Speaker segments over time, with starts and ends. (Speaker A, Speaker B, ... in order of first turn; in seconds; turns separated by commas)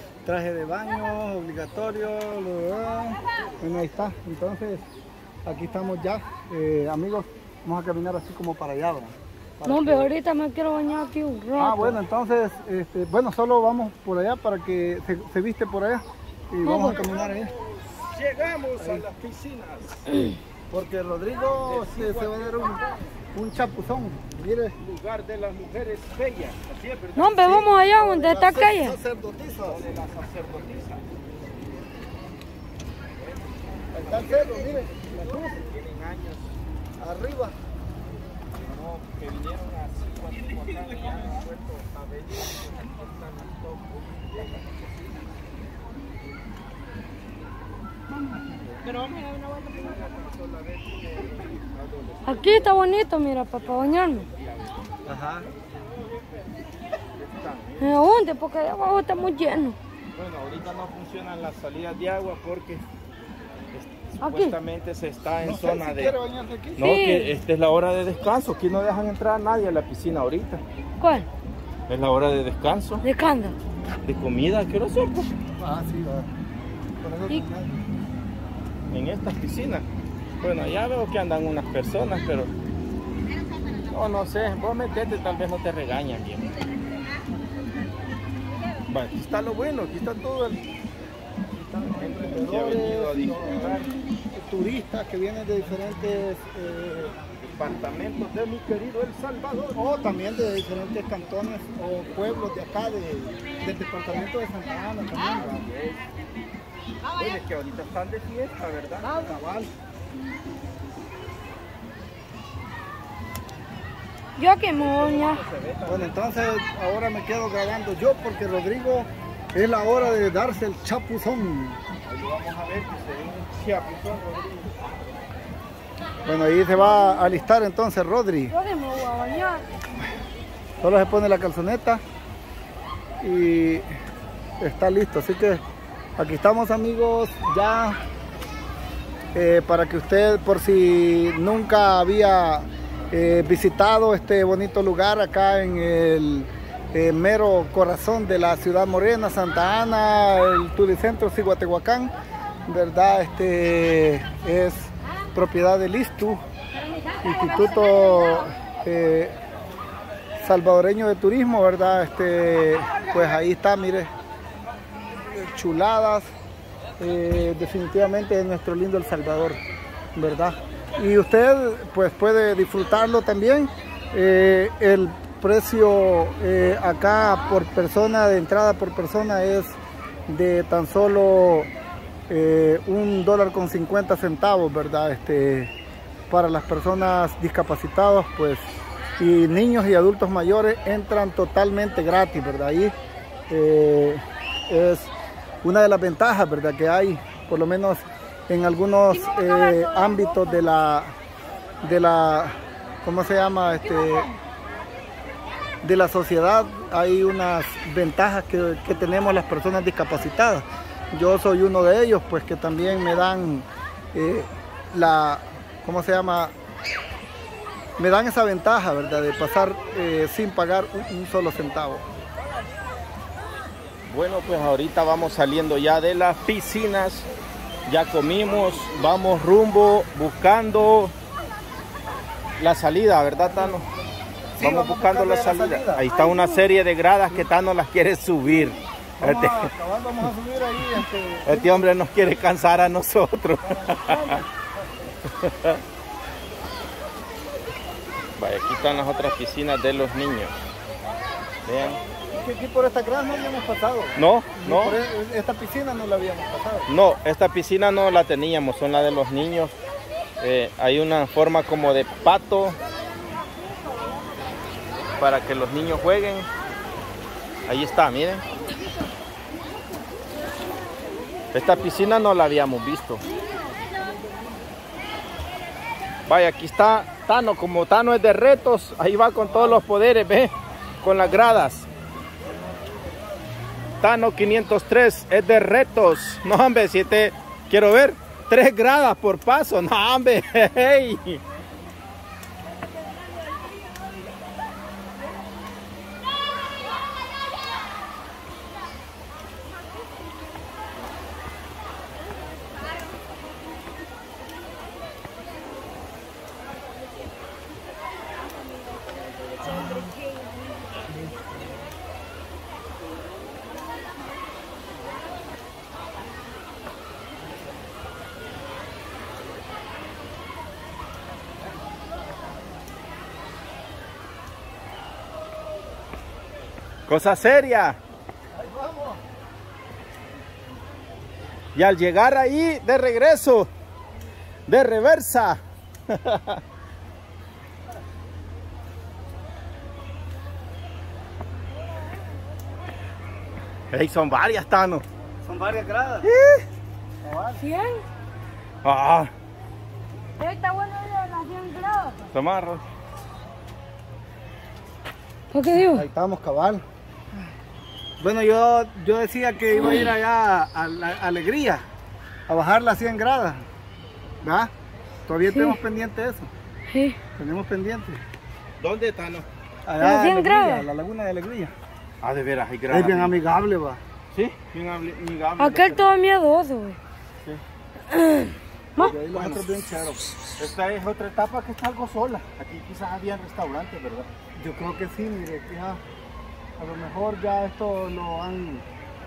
Speaker A: 0.2-4.8, Speaker A: 5.5-10.1, Speaker B: 9.6-12.0, Speaker A: 11.6-17.5, Speaker B: 16.6-17.0, Speaker C: 16.9-20.1, Speaker A: 18.8-19.1, Speaker B: 20.1-20.4, Speaker A: 20.7-22.8, Speaker C: 21.5-23.2, Speaker A: 23.3-24.8, Speaker C: 24.8-27.7, Speaker B: 27.1-28.9, Speaker A: 27.4-29.8, Speaker C: 29.6-31.1, Speaker C: 33.1-36.5, Speaker A: 33.9-35.6, Speaker A: 37.0-37.5, Speaker C: 38.5-45.4, Speaker C: 48.6-52.8, Speaker B: 52.2-54.3, Speaker C: 53.5-57.9, Speaker A: 55.0-55.5, Speaker B: 57.8-59.8, Speaker C: 60.1-62.8, Speaker C: 63.7-66.1, Speaker B: 64.2-64.5, Speaker A: 65.4-66.9, Speaker C: 66.8-70.6, Speaker B: 66.8-67.3, Speaker B: 71.0-71.3, Speaker C: 71.9-73.0, Speaker B: 73.0-73.5, Speaker C: 74.0-75.3, Speaker A: 75.6-76.3, Speaker A: 77.0-77.8, Speaker C: 78.9-79.8, Speaker C: 80.4-82.5, Speaker C: 83.9-86.6, Speaker C: 88.8-90.7, Speaker A: 91.5-93.7, Speaker C: 91.9-94.0, Speaker A: 94.3-97.2, Speaker C: 97.4-99.8, Speaker A: 99.7-105.6, Speaker C: 105.2-106.1, Speaker C: 107.0-109.1, Speaker A: 109.1-109.7, Speaker B: 114.4-115.4, Speaker C: 114.7-116.3, Speaker A: 115.8-121.8, Speaker C: 122.0-125.2, Speaker A: 126.2-128.5, Speaker B: 128.5-129.6, Speaker A: 130.8-132.0, Speaker A: 133.2-133.9, Speaker A: 134.6-135.6, Speaker A: 136.2-138.0, Speaker A: 139.3-152.1, Speaker A: 152.7-156.4, Speaker A: 157.2-159.4, Speaker A: 160.4-164.1, Speaker A: 165.3-166.3, Speaker A: 167.0-169.6, Speaker A: 170.1-181.7, Speaker A: 182.3-185.7, Speaker A: 186.3-188.6, Speaker A: 189.2-192.9, Speaker A: 193.5-195.1, Speaker A: 195.6-201.1, Speaker B: 199.1-200.6, Speaker A: 201.8-204.3, Speaker A: 205.8-216.5, Speaker A: 218.0-222.0, Speaker C: 224.1-227.3, Speaker C: 227.9-231.1, Speaker C: 232.6-233.9, Speaker A: 234.6-236.0, Speaker C: 234.6-239.7, Speaker B: 236.1-236.6, Speaker A: 239.2-241.9, Speaker C: 241.4-244.4, Speaker A: 243.8-244.4, Speaker C: 245.3-245.8, Speaker C: 248.4-250.5, Speaker C: 251.6-252.0, Speaker A: 252.3-256.9, Speaker C: 254.2-255.0, Speaker C: 256.9-259.7, Speaker C: 260.4-262.8, Speaker C: 265.2-266.5, Speaker C: 267.7-268.4, Speaker C: 271.5-273.2, Speaker C: 276.2-281.9, Speaker C: 284.0-291.4, Speaker C: 327.1-328.0, Speaker A: 328.5-329.2, Speaker C: 331.7-333.7, Speaker C: 334.7-336.6, Speaker C: 343.9-345.0, Speaker A: 345.4-346.3, Speaker C: 346.2-346.7, Speaker A: 347.2-347.6, Speaker B: 347.6-348.0, Speaker C: 348.8-349.3, Speaker B: 350.4-352.3, Speaker C: 352.3-352.8, Speaker B: 355.5-356.0, Speaker A: 355.7-356.8, Speaker A: 358.2-361.8, Speaker A: 362.5-363.6, Speaker A: 364.4-364.7, Speaker A: 365.3-366.5, Speaker B: 365.5-365.8, Speaker B: 366.9-367.2, Speaker A: 367.4-368.2, Speaker C: 368.8-369.5, Speaker A: 369.9-371.7, Speaker B: 370.0-370.8, Speaker C: 372.2-373.4, Speaker A: 372.9-374.0, Speaker C: 374.3-376.1, Speaker B: 375.6-377.0, Speaker B: 378.1-379.1, Speaker A: 379.0-380.2, Speaker C: 379.3-379.6, Speaker C: 380.6-384.3, Speaker A: 384.6-386.0, Speaker A: 386.8-388.8